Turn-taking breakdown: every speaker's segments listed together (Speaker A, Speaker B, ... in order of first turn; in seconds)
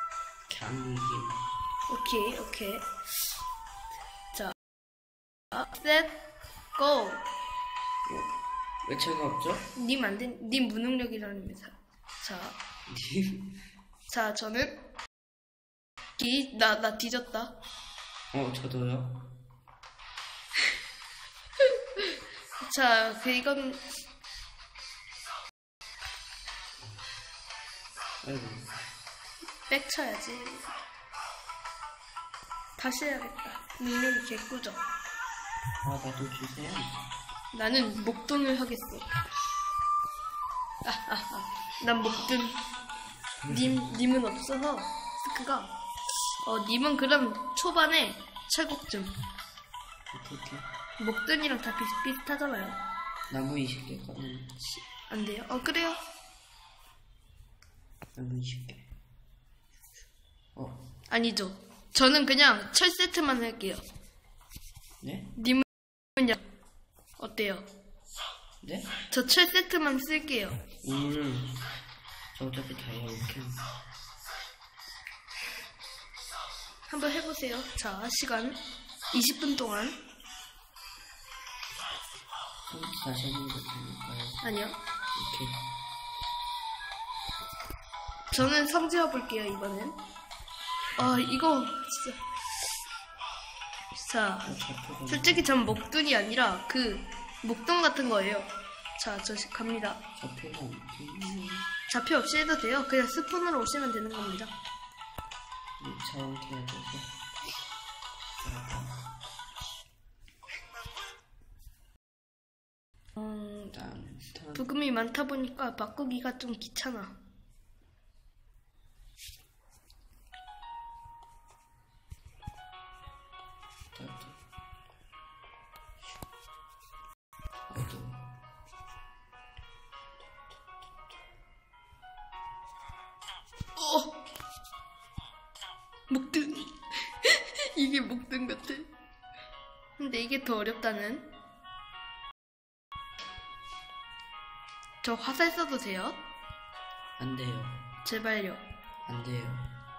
Speaker A: 0.5-1.4, 8.1-8.3, 8.8-9.7, 12.9-13.6, 18.3-19.3, 28.2-28.7, 35.8-37.0, 43.4-43.8, 50.1-50.7, 53.3-54.6, 58.1-58.9, 60.5-60.9, 65.0-65.3, 68.6-68.9, 70.8-71.7, 72.3-73.6, 82.7-84.4, 85.1-85.6, 94.4-95.7, 100.2-101.7, 105.8-107.1, 108.4-109.0, 113.7-114.7, 123.9-124.4, 127.7-128.3, 147.2-147.8, 149.1-149.7
Speaker B: 1.9-2.9, 5.5-6.2, 6.8-7.2, 9.7-12.6, 14.1-14.8, 16.2-17.5, 21.9-23.8, 29.7-30.8, 32.8-34.8, 37.5-39.0, 40.8-42.5, 43.5-45.7, 46.4-49.1, 51.0-52.8, 54.7-56.0, 61.1-63.8, 65.3-66.4, 67.2-67.7, 69.1-70.6, 76.9-78.6, 79.1-80.0, 84.4-84.8, 88.3-90.0, 91.0-92.2, 94.0-94.5, 95.1-100.0, 101.9-104.5, 113.2-113.7, 114.5-117.1, 133.8-134.1, 136.1-138.9, 140.0-141.2, 145.0-146.2, 148.0-148.6